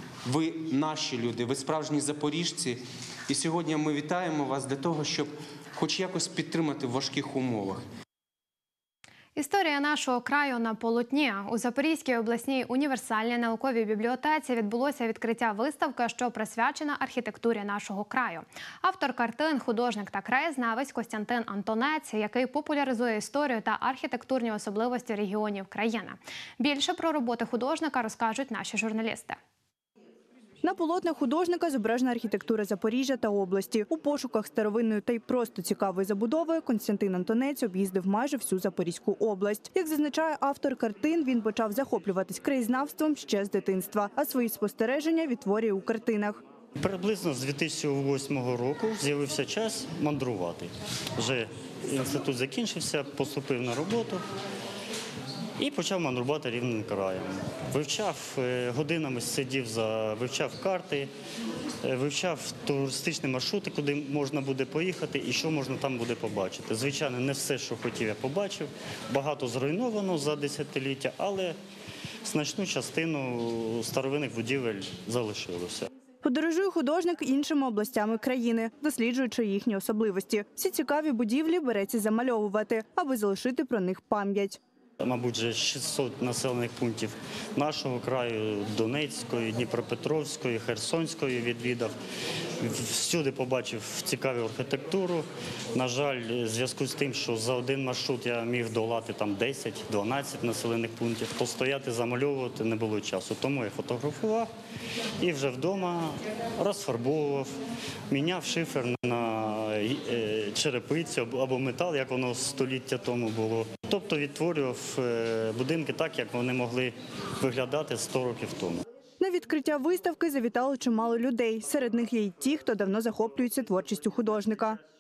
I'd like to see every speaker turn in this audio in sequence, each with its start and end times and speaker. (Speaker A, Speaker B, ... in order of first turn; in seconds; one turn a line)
Speaker A: 0.2-7.8
Speaker B: 9.4-29.4
Speaker C: 30.6-46.4
Speaker D: 46.8-54.2
Speaker D: 55.6-61.1
Speaker D: 61.8-71.6
Speaker D: 72.2-75.9
Speaker C: 76.2-84.6
Speaker D: 85.0-92.0
Speaker D: 92.6-104.5
Speaker D: 105.2-107.6
Speaker D: 108.1-118.8
Speaker C: 119.2-124.8